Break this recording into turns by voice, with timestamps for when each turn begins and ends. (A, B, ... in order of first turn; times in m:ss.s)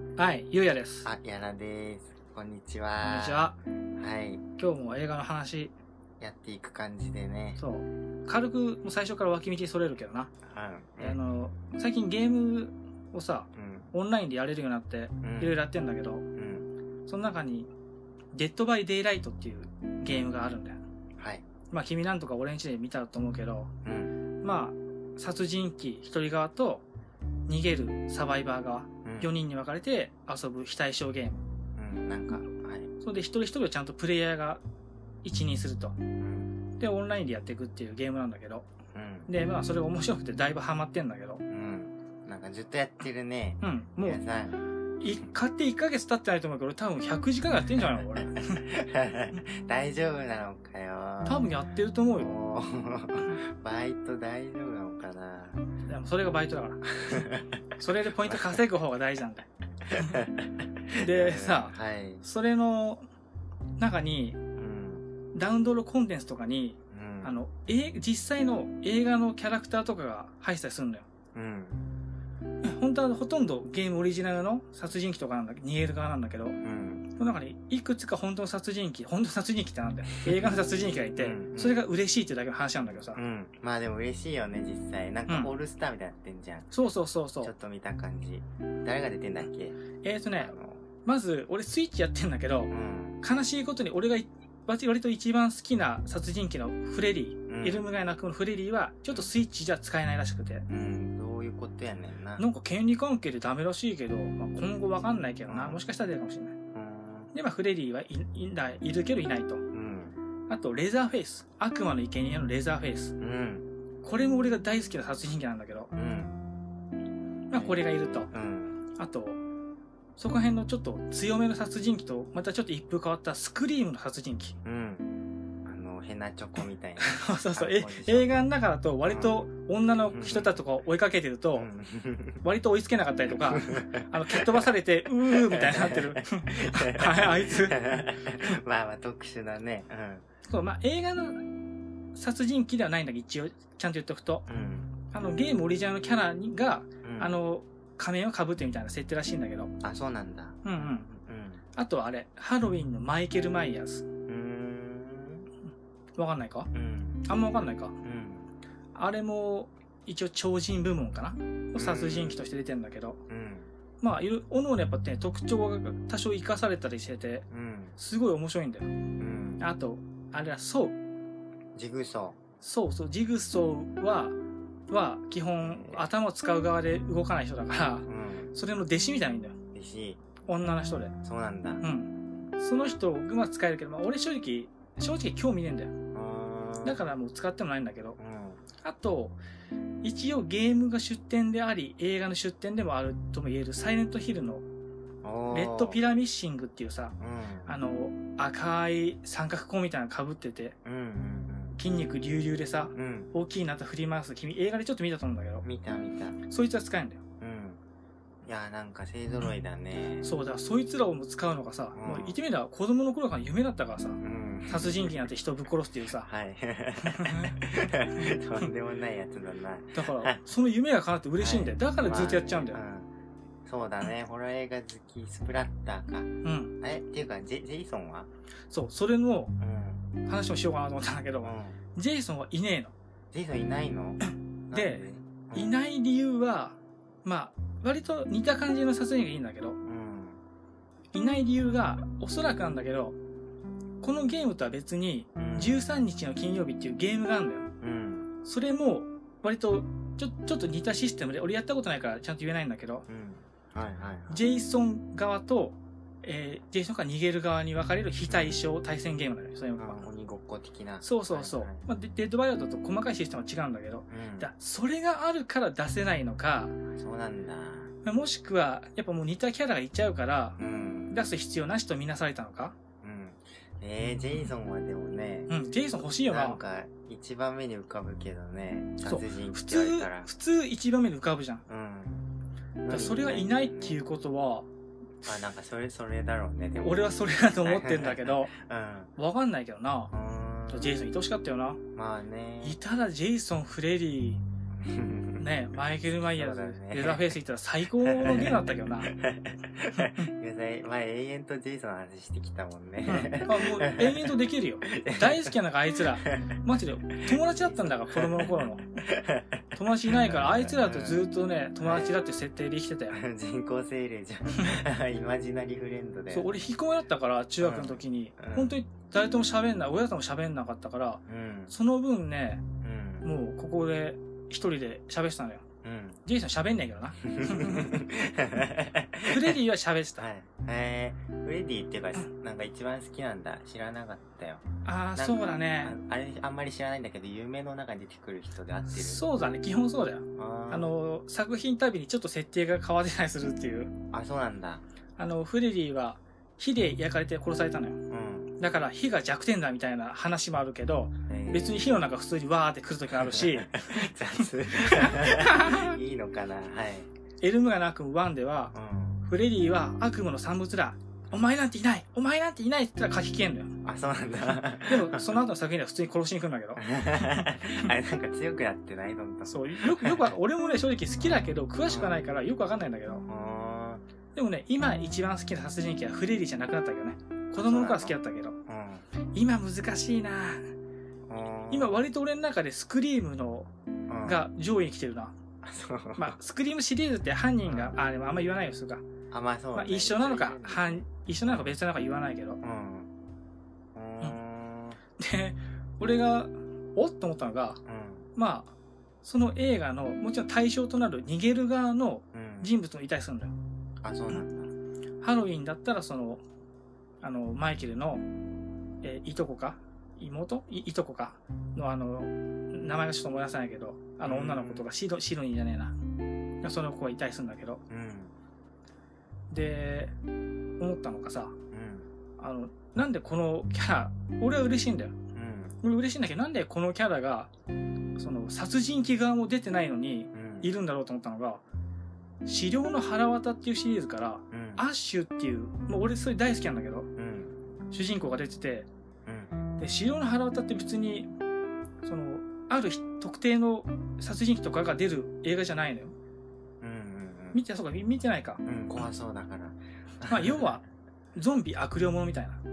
0:00.2-0:01.1 A
0:01.0-0:04.4 B
0:03.0-0:03.6 A
0:04.6-0:05.7 A
0:06.2-0:07.6 B
0:07.6-0:10.3 A
0:10.4-0:11.2 B
0:11.0-0:16.2 A
0:13.5-0:13.9 B
0:15.2-0:15.6 B
0:16.3-0:16.7 B
0:17.1-0:17.7 A
0:18.3-0:20.8 A
0:21.2-0:21.4 B
0:21.7-0:23.7 A
0:23.8-0:24.2 B
0:24.4-0:26.8 A
0:27.5-0:31.4 A
0:29.0-0:29.3 B
0:31.8-0:32.9 B
0:33.0-0:34.6 A
0:35.2-0:36.0 A
0:36.2-0:36.5 B
0:36.8-0:38.7 A
0:38.9-0:39.3 B
0:39.3-0:41.4 A
0:41.5-0:44.6 B
0:43.6-0:44.2 A
0:45.0-0:48.6 A
0:47.8-0:51.6 B
0:51.2-0:52.3 A
0:52.2-0:55.6 B
0:55.9-0:56.8 A
0:56.9-0:57.6 B
0:57.8-0:59.5 A
0:58.2-0:58.6 B
0:59.9-1:02.2 B
1:01.0-1:03.1 A
1:03.8-1:04.4 A
1:04.5-1:05.1 B
1:05.3-1:11.1 A
1:06.9-1:07.4 B
1:11.3-1:11.9 B
1:12.6-1:16.6 A
1:16.6-1:17.1 B
1:17.2-1:23.2 A
1:20.3-1:20.6 B
1:21.2-1:21.8 B
1:22.8-1:26.7 B
1:25.3-1:25.5 A
1:26.7-1:27.5 A
1:27.4-1:29.8 B
1:30.0-1:40.7 A
1:30.4-1:30.9 B
1:32.7-1:33.2 B
1:37.5-1:37.9 B
1:40.7-1:42.4 B
1:42.4-1:46.6 A
1:45.5-1:45.8 B
1:46.7-1:47.3 B
1:47.3-1:49.7 A
1:49.7-1:50.2 B
1:50.5-1:53.2 A
1:53.2-1:53.7 B
1:54.0-1:55.9 A
1:55.9-1:56.4 B
1:57.5-1:58.3 A
1:57.5-1:58.8 B
1:59.0-1:59.4 A
2:00.2-2:04.6 A
2:04.6-2:05.1 B
2:05.6-2:08.5 B
2:07.0-2:11.7 A
2:09.0-2:09.4 B
2:10.1-2:10.6 B
2:11.5-2:12.4 B
2:12.4-2:17.8 A
2:13.3-2:14.7 B
2:15.3-2:20.2 B
2:20.5-2:21.5 A
2:22.1-2:24.5 A
2:24.5-2:24.9 B
2:25.1-2:29.7 A
2:27.0-2:27.4 B
2:29.8-2:31.6 B
2:30.6-2:31.1 A
2:31.7-2:34.0 A
2:34.2-2:35.5 B
2:36.2-2:36.7 A
2:36.7-2:37.3 B
2:37.3-2:38.0 A
2:38.0-2:38.5 B
2:38.9-2:43.2 A
2:41.7-2:42.4 B
2:43.3-2:43.7 B
2:44.0-2:47.4 A
2:47.5-2:48.0 B
2:48.0-2:48.9 A
2:49.2-2:49.7 B
2:49.6-2:51.0 A
2:51.7-2:52.4 B
2:52.6-2:54.3 A
2:54.9-2:59.6 A
2:55.6-2:56.1 B
2:58.0-2:58.5 B
2:59.7-3:00.2 B
3:00.4-3:01.1 A
3:01.2-3:01.8 B
3:01.8-3:05.9 A
3:06.1-3:07.0 B
3:06.8-3:08.2 A
3:08.2-3:08.6 B
3:08.8-3:09.4 A
3:10.0-3:14.6 A
3:15.2-3:16.0 B
3:15.5-3:20.7 A
3:17.2-3:17.8 B
3:20.8-3:21.8 B
3:21.7-3:25.7 A
3:22.9-3:23.3 B
3:25.6-3:26.4 B
3:26.4-3:27.2 A
3:27.4-3:27.8 B
3:28.4-3:30.3 B
3:30.2-3:36.3 A
3:31.9-3:32.4 B
3:34.2-3:35.3 B
3:36.2-3:40.4 B
3:37.0-3:37.6 A
3:39.9-3:42.8 A
3:41.4-3:43.1 B
3:43.6-3:48.3 B
3:46.4-3:46.7 A
3:48.7-3:49.5 A
3:49.6-3:50.0 B
3:50.2-3:52.9 A
3:51.4-3:51.8 B
3:53.3-3:55.7 B
3:54.7-3:59.8 A
3:59.8-4:00.4 B
4:01.1-4:03.2 A
4:04.0-4:07.7 A
4:05.4-4:05.8 B
4:07.8-4:08.3 B
4:08.4-4:13.0 A
4:13.1-4:14.4 B
4:14.3-4:20.0 A
4:18.3-4:18.6 B
4:19.8-4:21.8 B
4:21.0-4:26.7 A
4:24.1-4:24.5 B
4:26.9-4:27.9 B
4:28.0-4:30.6 A
4:30.6-4:31.2 B
4:31.1-4:32.8 A
4:33.0-4:35.5 B
4:35.5-4:36.6 A
4:36.2-4:40.3 B
4:39.0-4:41.6 A
4:41.7-4:42.3 B
4:42.8-4:44.0 B
4:42.9-4:44.7 A
4:45.2-4:49.1 B
4:46.8-4:48.5 A
4:49.2-4:50.1 A
4:50.1-4:51.0 B
4:50.7-4:51.8 A
4:51.9-4:52.8 B
4:52.6-4:54.4 A
4:54.8-4:55.5 B
4:55.4-4:59.1 A
4:56.2-4:57.4 B
4:58.0-5:05.5 B
4:59.9-5:00.2 A
5:03.1-5:08.9 A
5:07.2-5:11.2 B
5:09.7-5:13.2 A
5:11.8-5:12.2 B
5:13.1-5:16.7 B
5:16.3-5:22.6 A
5:17.6-5:18.8 B
5:21.3-5:21.7 B
5:22.8-5:23.3 B
5:23.2-5:25.6 A
5:25.8-5:26.2 B
5:26.2-5:28.0 A
5:27.2-5:29.6 B
5:29.3-5:30.2 A
5:30.2-5:39.2 B
5:34.8-5:36.0 A
5:38.9-5:43.9 A
5:40.4-5:40.9 B
5:44.1-5:44.8 B
5:45.2-5:48.0 A
5:48.1-5:48.6 B
5:48.6-5:54.1 A
5:51.3-5:52.0 B
5:53.1-5:57.1 B
5:54.7-5:56.0 A
5:57.4-5:58.7 A
5:58.7-5:59.2 B
5:59.2-6:03.8 A
6:03.8-6:05.4 B
6:04.9-6:07.9 A
6:06.8-6:10.4 B
6:09.5-6:13.2 A
6:11.2-6:12.2 B
6:13.3-6:14.0 B
6:14.4-6:18.6 A
6:17.6-6:18.2 B
6:18.7-6:19.0 B
6:19.3-6:20.7 A
6:21.3-6:22.0 B
6:21.7-6:23.7 A
6:24.1-6:24.4 B
6:24.2-6:25.4 A
6:25.6-6:26.4 B
6:26.2-6:29.0 A
6:27.7-6:28.0 B
6:29.3-6:31.8 B
6:29.7-6:32.6 A
6:32.6-6:33.1 B
6:33.9-6:35.0 B
6:35.2-6:37.8 A
6:37.9-6:38.3 B
6:38.4-6:43.6 A
6:42.3-6:42.7 B
6:44.0-6:44.7 B
6:45.2-6:46.4 A
6:47.2-6:48.2 A
6:49.0-6:56.0 A
6:54.2-6:54.9 B
6:56.6-6:57.8 A
6:57.9-6:58.3 B
6:59.5-7:00.1 A
7:00.8-7:01.6 A
7:01.7-7:02.1 B
7:02.4-7:05.2 A
7:05.3-7:05.8 B
7:05.8-7:07.5 A
7:08.2-7:11.6 A
7:10.3-7:10.7 B
7:12.4-7:17.1 A
7:14.5-7:14.8 B
7:17.2-7:17.6 B
7:17.9-7:18.9 A
7:19.2-7:19.5 B
7:19.8-7:21.3 A
7:22.0-7:26.1 A
7:26.8-7:27.6 B
7:27.5-7:28.6 A
7:28.6-7:30.7 B
7:30.2-7:30.8 A
7:31.4-7:32.6 A